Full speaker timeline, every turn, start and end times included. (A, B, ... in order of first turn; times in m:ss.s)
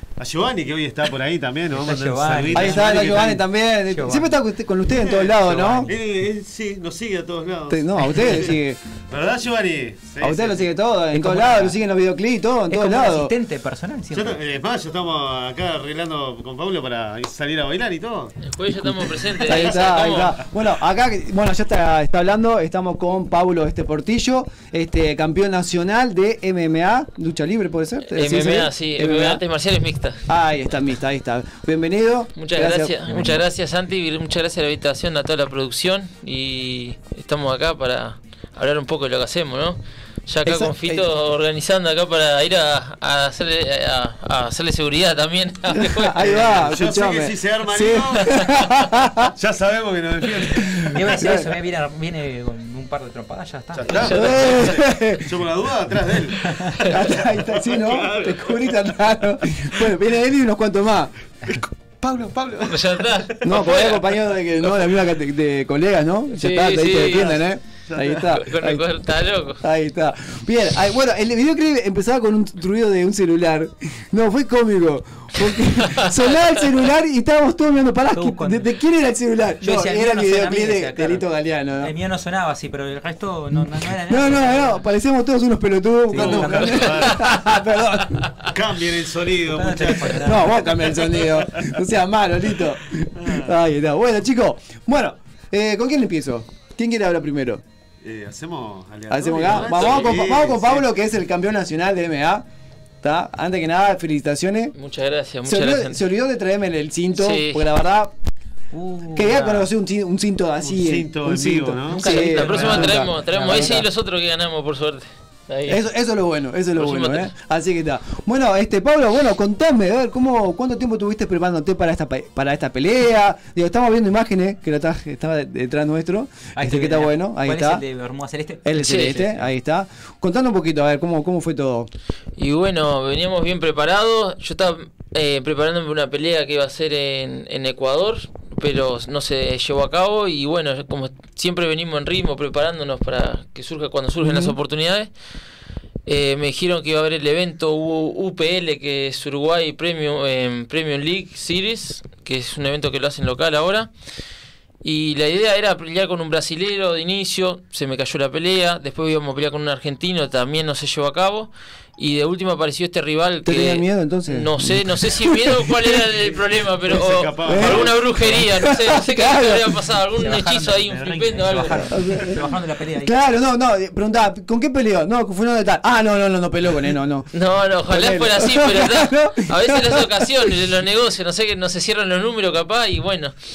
0:00.2-0:03.4 A
0:01.7-0:04.3 B
0:02.5-0:05.9 C
0:04.9-0:10.7 A
0:05.4-0:05.9 B
0:07.7-0:08.8 C
0:10.2-0:13.3 C
0:11.1-0:11.8 B
0:12.7-0:14.4 B
0:14.1-0:18.4 A
0:18.4-0:20.4 D
0:18.9-0:29.4 C
0:19.4-0:20.4 A
0:28.1-0:30.2 D
0:30.3-0:33.3 C
0:32.4-0:46.4 D
0:40.4-0:41.0 C
0:45.7-0:49.3 C
0:46.2-0:48.6 A
0:49.2-0:51.0 A
0:50.6-0:51.5 C
0:50.9-0:54.6 B
0:53.7-0:58.9 A
0:54.0-0:55.4 C
0:56.8-1:01.1 C
1:01.5-1:03.8 A
1:02.6-1:04.0 D
1:03.4-1:08.8 C
1:06.3-1:07.4 D
1:07.9-1:08.2 A
1:08.1-1:09.6 D
1:09.6-1:21.9 C
1:16.0-1:16.4 D
1:18.1-1:18.7 B
1:19.6-1:21.2 B
1:21.8-1:24.8 B
1:23.6-1:28.3 C
1:26.1-1:27.1 B
1:26.1-1:27.4 A
1:28.4-1:31.8 A
1:29.4-1:30.7 B
1:30.2-1:37.6 C
1:33.1-1:33.5 A
1:38.0-1:40.9 A
1:39.1-1:42.4 C
1:43.0-1:44.7 C
1:44.8-1:46.0 D
1:45.4-1:48.1 C
1:47.2-1:47.7 D
1:48.7-1:49.7 B
1:49.1-1:53.8 C
1:50.6-1:53.0 A
1:51.9-1:55.8 D
1:52.4-1:53.8 B
1:55.7-2:07.8 C
2:06.6-2:09.5 B
2:08.6-2:11.9 C
2:08.8-2:09.2 D
2:12.4-2:25.1 D
2:24.2-2:24.6 C
2:26.0-2:33.9 D
2:34.8-2:52.1 D
2:43.4-2:46.0 C
2:46.9-2:48.4 A
2:47.4-2:49.8 C
2:50.2-2:53.1 B
2:51.9-2:52.5 C
2:53.0-2:57.3 C
2:57.3-3:03.3 D
2:57.9-3:00.6 C